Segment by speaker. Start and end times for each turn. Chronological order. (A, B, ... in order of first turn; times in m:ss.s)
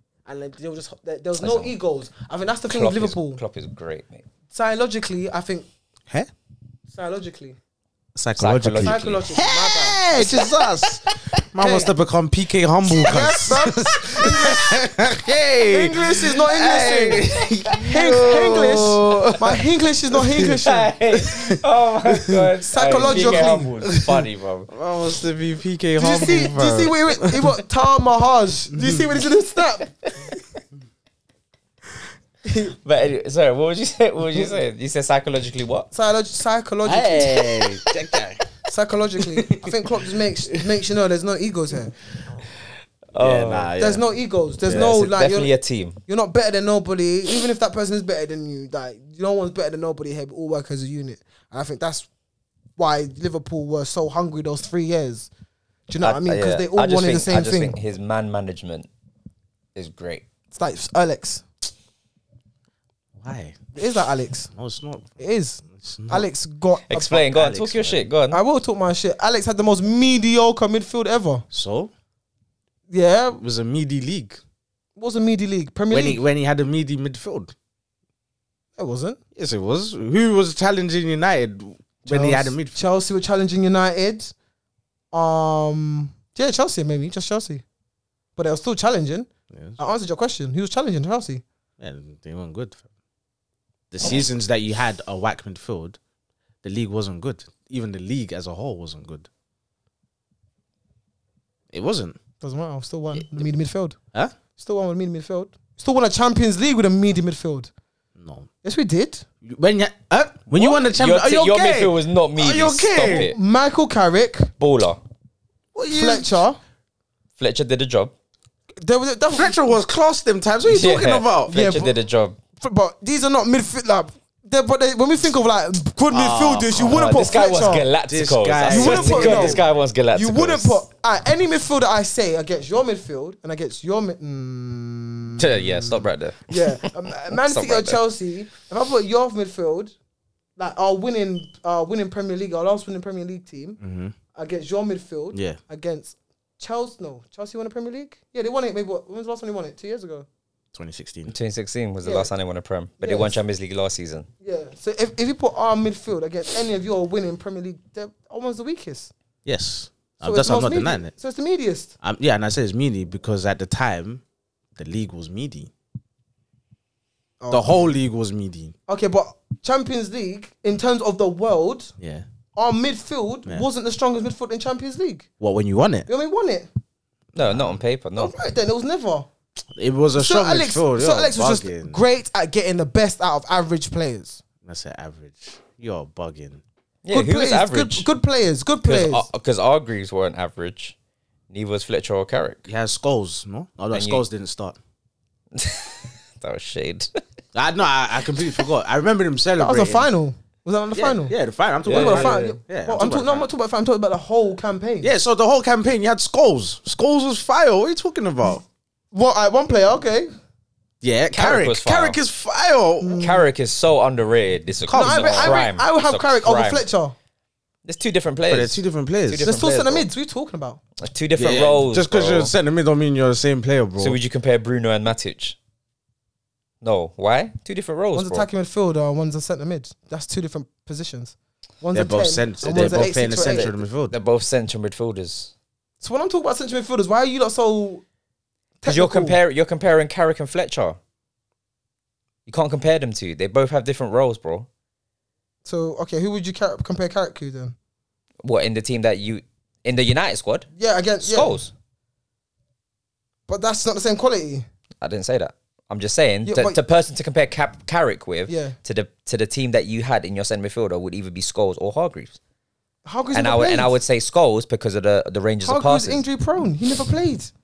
0:00.2-0:03.4 A
0:01.4-0:01.7 B
0:02.7-0:04.3 B
0:04.5-0:05.7 A
0:06.9-0:07.6 A
0:08.1-0:20.6 C
0:08.4-0:09.2 B
0:08.8-0:10.6 A
0:11.6-0:11.9 A
0:12.9-0:14.9 A
0:15.7-0:20.9 A
0:17.0-0:19.3 B
0:20.6-0:24.7 B
0:21.1-0:22.5 C
0:22.7-0:23.7 A
0:23.0-0:27.5 C
0:26.0-0:30.0 A
0:28.7-0:29.1 C
0:32.4-0:32.7 A
0:32.8-0:35.9 B
0:35.9-0:37.6 A
0:36.8-0:38.4 C
0:38.6-0:42.0 A
0:39.2-0:40.6 C
0:43.1-0:43.7 B
0:43.2-0:44.0 C
0:43.8-0:45.5 A
0:44.6-0:44.9 C
0:44.6-0:46.0 B
0:46.1-0:52.1 A
0:52.8-0:55.3 A
0:55.9-0:57.8 A
0:56.0-0:58.9 B
0:59.7-1:00.2 B
1:00.5-1:01.4 A
1:03.2-1:03.6 C
1:03.8-1:04.5 A
1:04.5-1:05.2 C
1:05.2-1:07.2 A
1:05.7-1:06.3 C
1:06.9-1:08.4 B
1:07.1-1:08.0 C
1:08.3-1:11.4 A
1:11.5-1:11.9 C
1:12.9-1:13.4 A
1:13.4-1:14.4 C
1:15.0-1:16.2 A
1:15.9-1:17.5 C
1:18.8-1:19.2 A
1:19.3-1:22.7 C
1:22.1-1:24.3 A
1:25.1-1:27.6 A
1:28.4-1:31.4 A
1:29.5-1:29.8 C
1:31.8-1:32.8 C
1:33.9-1:36.0 C
1:36.6-1:39.3 C
1:41.7-1:42.2 C
1:42.4-1:44.0 A
1:44.6-1:47.7 A
1:48.2-1:48.5 C
1:48.6-1:49.2 A
1:49.4-1:53.3 C
1:50.5-1:53.4 B
1:52.9-1:54.5 A
1:54.6-1:55.0 B
1:55.7-1:56.4 C
1:55.9-1:56.6 A
1:57.4-1:58.1 B
1:58.8-1:59.8 A
1:59.3-2:01.5 C
2:00.6-2:02.4 B
2:01.5-2:01.9 A
2:02.6-2:07.9 A
2:06.1-2:09.7 C
2:06.8-2:10.8 B
2:08.6-2:09.6 A
2:10.1-2:19.9 A
2:15.4-2:18.0 B
2:20.6-2:23.8 A
2:23.8-2:24.1 C
2:24.3-2:30.3 A
2:25.3-2:25.6 C
2:30.7-2:31.3 C
2:31.3-2:34.3 B
2:32.0-2:32.3 A
2:33.0-2:33.4 A
2:34.4-2:39.1 A
2:39.4-2:41.1 C
2:40.2-2:41.9 A
2:42.0-2:44.2 C
2:44.8-2:45.7 C
2:47.4-2:47.9 A
2:47.5-2:48.7 C
2:48.9-2:51.9 A
2:52.0-2:52.2 C
2:52.6-2:55.3 A
2:55.4-2:56.1 C
2:56.1-2:56.7 A
2:57.3-2:58.3 B
2:57.4-2:57.8 C
2:58.2-2:59.3 A
2:59.8-3:02.0 C
3:00.1-3:04.4 A
3:04.6-3:06.6 C
3:07.0-3:08.1 B
3:07.1-3:09.2 A
3:08.8-3:11.0 B
3:11.5-3:12.6 B
3:12.6-3:14.8 C
3:13.9-3:14.2 B
3:15.5-3:17.2 B
3:17.5-3:20.1 C
3:19.6-3:25.1 A
3:20.9-3:23.5 C
3:21.8-3:22.6 B
3:25.0-3:28.6 C
3:29.1-3:30.3 A
3:31.0-3:33.2 C
3:31.3-3:32.2 B
3:33.0-3:33.5 A
3:33.2-3:36.8 B
3:34.9-3:35.6 C
3:34.9-3:37.1 A
3:37.8-3:40.0 B
3:38.5-3:39.5 C
3:39.4-3:40.8 A
3:41.0-3:42.5 B
3:41.4-3:44.2 C
3:44.0-3:45.6 B
3:46.8-3:48.5 B
3:48.1-3:53.7 A
3:51.9-3:54.2 C
3:52.7-3:55.5 B
3:56.0-3:58.0 A
3:58.8-3:59.4 A
3:58.8-4:01.0 B
4:02.5-4:04.7 B
4:05.6-4:07.7 A
4:08.4-4:10.7 B
4:10.8-4:11.6 A
4:11.2-4:11.7 B
4:13.5-4:14.6 A
4:15.0-4:22.4 B
4:16.4-4:16.8 A
4:18.5-4:18.8 A
4:23.0-4:24.0 A
4:23.3-4:26.2 B
4:25.6-4:27.5 A